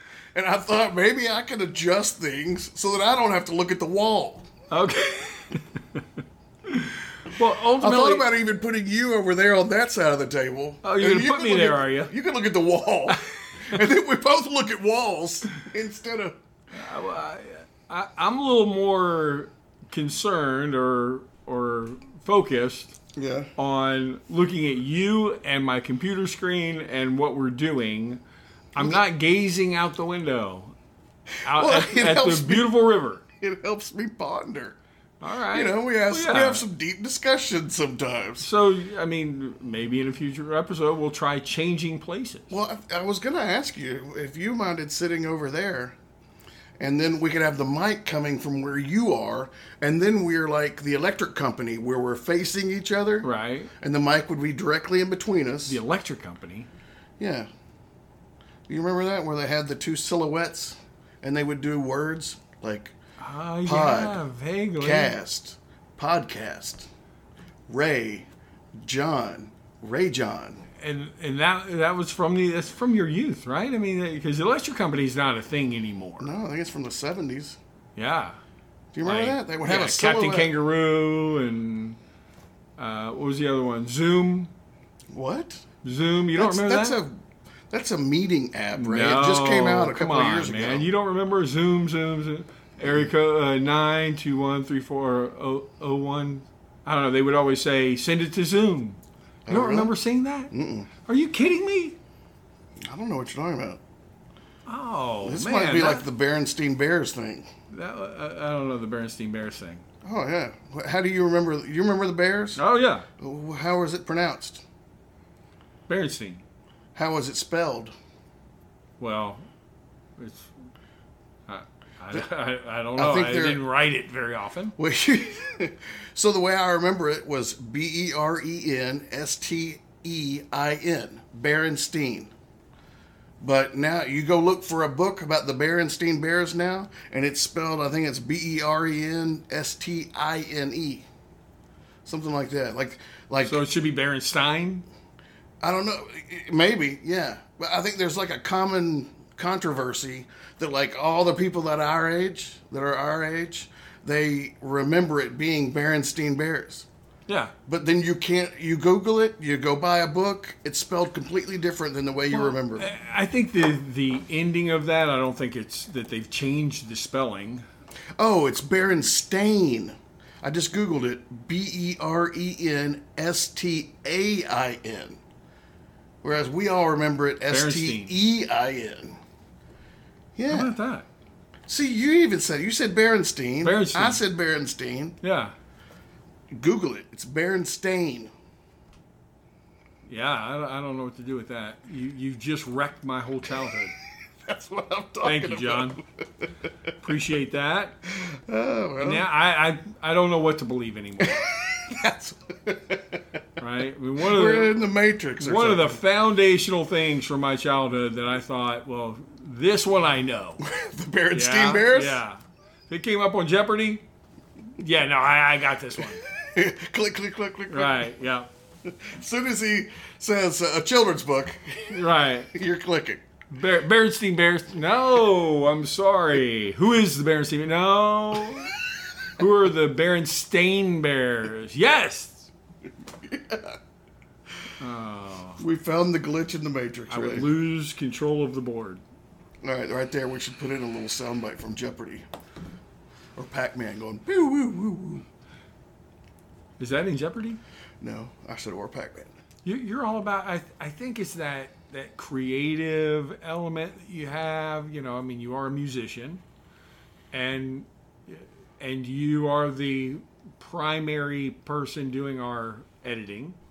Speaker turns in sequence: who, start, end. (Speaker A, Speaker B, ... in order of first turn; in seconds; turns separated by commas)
Speaker A: 0.3-4.5, Speaker B: 4.7-6.0, Speaker B: 6.7-8.3, Speaker A: 7.8-16.3, Speaker B: 10.8-12.1, Speaker B: 16.7-22.9, Speaker A: 23.1-23.5, Speaker B: 23.6-28.2, Speaker B: 28.8-30.8, Speaker B: 31.4-33.2, Speaker A: 31.5-32.7, Speaker A: 33.4-34.8, Speaker B: 35.2-36.6, Speaker A: 35.5-38.5, Speaker B: 38.4-42.5, Speaker A: 42.5-46.0, Speaker A: 46.8-55.8, Speaker B: 53.2-53.7, Speaker B: 55.7-56.7, Speaker A: 57.2-57.5, Speaker A: 58.7-62.9, Speaker B: 63.2-65.2, Speaker A: 63.6-64.2, Speaker A: 64.8-66.9, Speaker A: 67.7-70.6, Speaker B: 70.8-76.3, Speaker A: 76.2-77.6, Speaker B: 78.0-78.4, Speaker A: 78.9-80.5, Speaker B: 79.0-82.0, Speaker B: 82.8-84.5, Speaker A: 85.1-85.6, Speaker B: 85.8-87.0, Speaker A: 86.3-90.9, Speaker B: 88.8-100.5, Speaker A: 99.5-99.9, Speaker A: 100.5-100.9, Speaker B: 101.0-102.0, Speaker A: 102.8-103.8, Speaker B: 104.7-106.0, Speaker A: 105.2-107.5, Speaker B: 107.7-109.8, Speaker A: 110.0-112.6, Speaker B: 112.6-113.1, Speaker A: 113.2-114.6, Speaker B: 115.9-116.4, Speaker A: 116.9-117.9, Speaker B: 119.0-119.4, Speaker B: 120.2-120.5, Speaker B: 121.5-124.8, Speaker A: 122.9-123.7, Speaker A: 124.8-132.3, Speaker A: 133.4-141.1, Speaker A: 142.1-143.6, Speaker B: 143.4-144.8, Speaker A: 145.6-156.9, Speaker B: 157.3-157.5, Speaker A: 157.7-162.9, Speaker B: 162.3-167.6, Speaker A: 168.2-175.2, Speaker A: 176.2-179.2, Speaker B: 177.5-178.2, Speaker A: 180.4-180.7, Speaker B: 180.5-181.1, Speaker A: 181.7-185.2, Speaker B: 183.6-184.2, Speaker B: 185.2-185.5, Speaker A: 186.5-188.3, Speaker B: 190.1-193.9, Speaker A: 194.5-196.4, Speaker B: 195.2-196.0, Speaker B: 197.0-198.0, Speaker A: 198.2-199.2, Speaker B: 199.0-201.4, Speaker A: 201.2-203.2, Speaker B: 203.6-204.8, Speaker A: 204.2-206.0, Speaker B: 205.4-210.6, Speaker A: 210.6-212.2, Speaker B: 211.3-214.0, Speaker B: 214.8-216.2, Speaker A: 216.3-218.1, Speaker B: 217.7-218.5, Speaker A: 218.8-222.0, Speaker B: 221.9-222.5, Speaker A: 222.5-223.2, Speaker B: 223.5-228.7, Speaker B: 229.4-232.5, Speaker A: 233.2-233.8, Speaker B: 234.8-235.6, Speaker A: 235.6-237.5, Speaker B: 237.1-239.0, Speaker A: 239.6-242.2, Speaker A: 243.4-245.2, Speaker B: 246.8-247.6, Speaker A: 248.0-249.3, Speaker B: 249.6-256.4, Speaker B: 257.3-263.6